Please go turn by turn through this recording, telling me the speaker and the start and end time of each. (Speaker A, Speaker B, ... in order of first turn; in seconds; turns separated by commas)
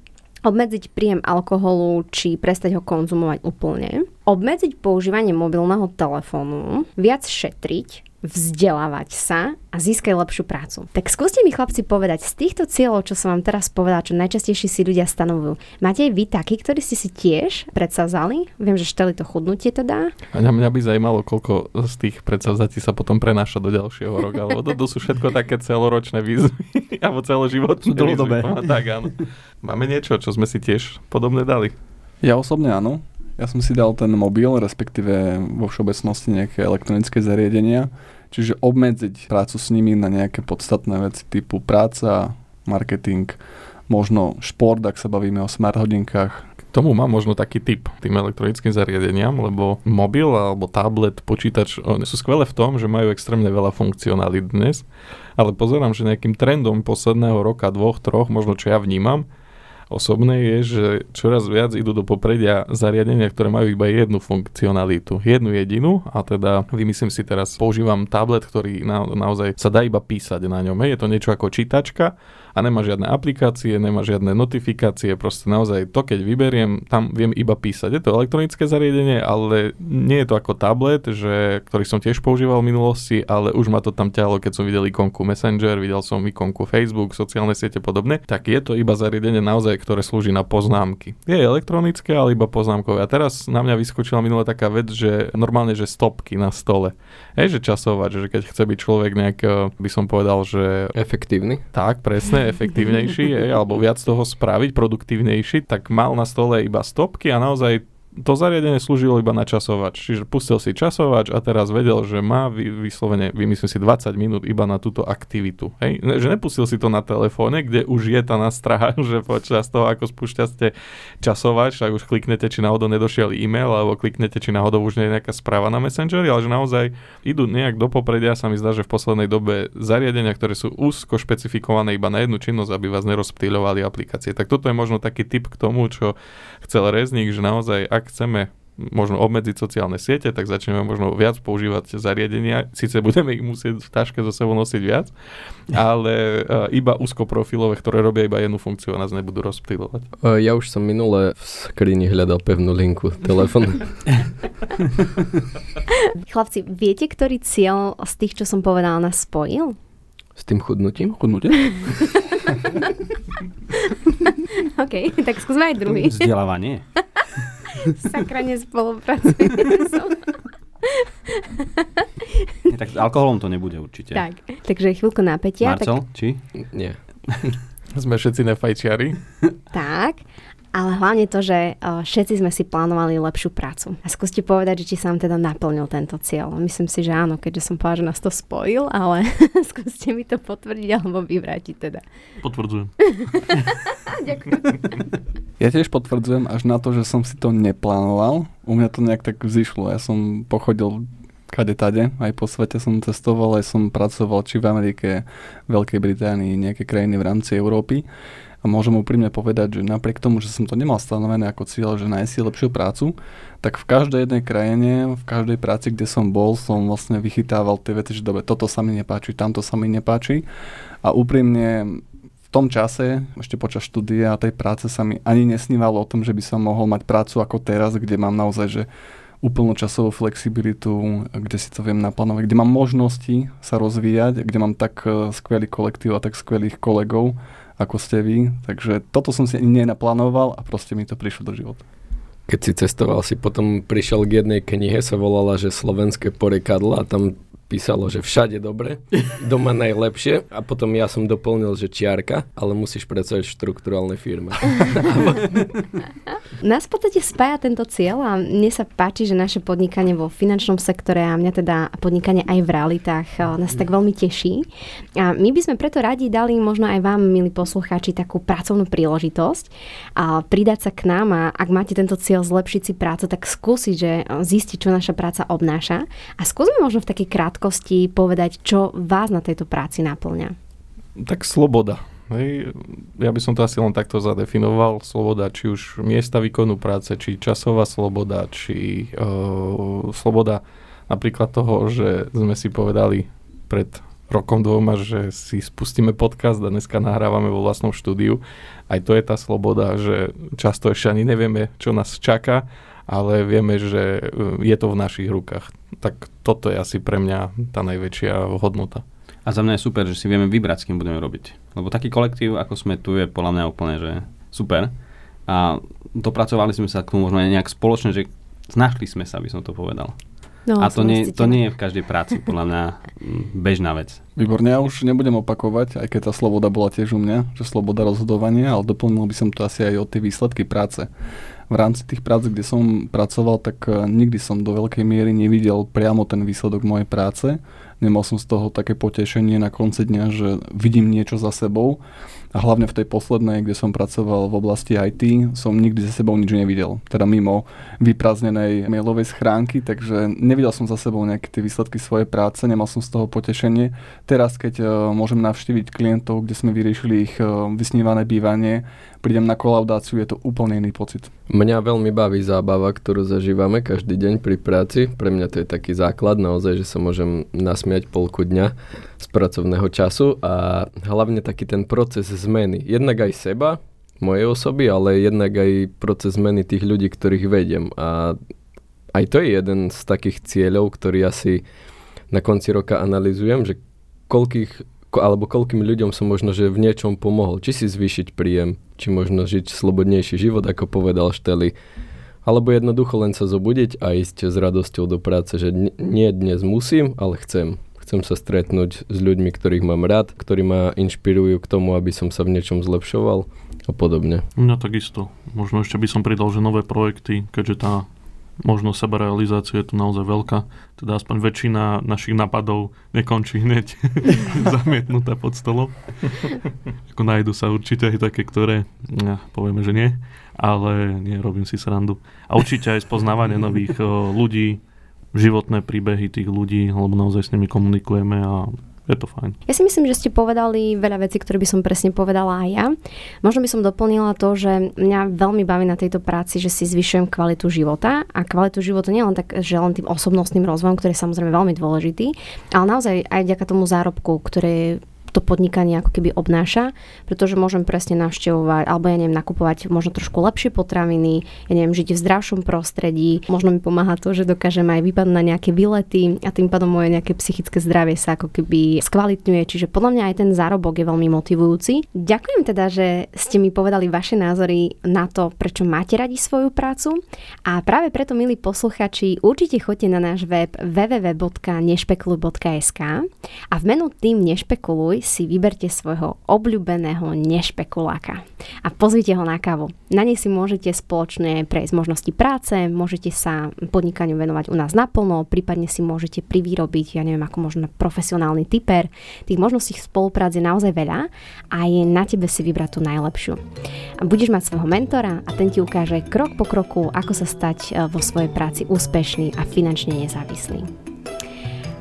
Speaker A: 0.4-20.1, Speaker B: 20.3-31.8, Speaker C: 27.9-28.7, Speaker D: 32.2-46.5, Speaker B: 46.7-54.9, Speaker B: 55.4-59.2, Speaker B: 59.9-100.9, Speaker E: 100.9-101.6, Speaker B: 101.7-145.1, Speaker B: 145.7-150.1, Speaker E: 150.2-154.1, Speaker A: 156.3-159.8, Speaker E: 160.3-161.3, Speaker D: 161.2-161.5, Speaker A: 161.6-162.9, Speaker A: 164.1-166.3, Speaker C: 165.9-166.8, Speaker A: 167.9-170.2, Speaker A: 170.8-172.5, Speaker C: 172.7-174.2, Speaker A: 174.1-176.0, Speaker C: 175.6-176.4, Speaker E: 176.7-177.0, Speaker B: 177.9-179.2, Speaker A: 179.7-180.2, Speaker A: 180.7-192.0, Speaker F: 192.4-193.2, Speaker A: 193.1-195.1, Speaker D: 195.6-208.1, Speaker D: 208.6-220.5, Speaker D: 221.0-228.9, Speaker D: 229.4-241.8, Speaker E: 242.5-255.8, Speaker A: 256.6-264.6, Speaker A: 265.2-280.5, Speaker B: 281.2-309.0, Speaker C: 309.4-324.2, Speaker A: 320.6-321.6, Speaker D: 324.4-331.1, Speaker D: 331.7-342.0, Speaker D: 342.5-361.3, Speaker E: 361.5-378.4, Speaker E: 379.1-381.6, Speaker E: 382.3-391.7, Speaker E: 392.4-404.4, Speaker F: 404.6-408.1, Speaker F: 408.6-424.8, Speaker F: 425.3-429.6, Speaker A: 429.7-493.6, Speaker A: 494.2-500.9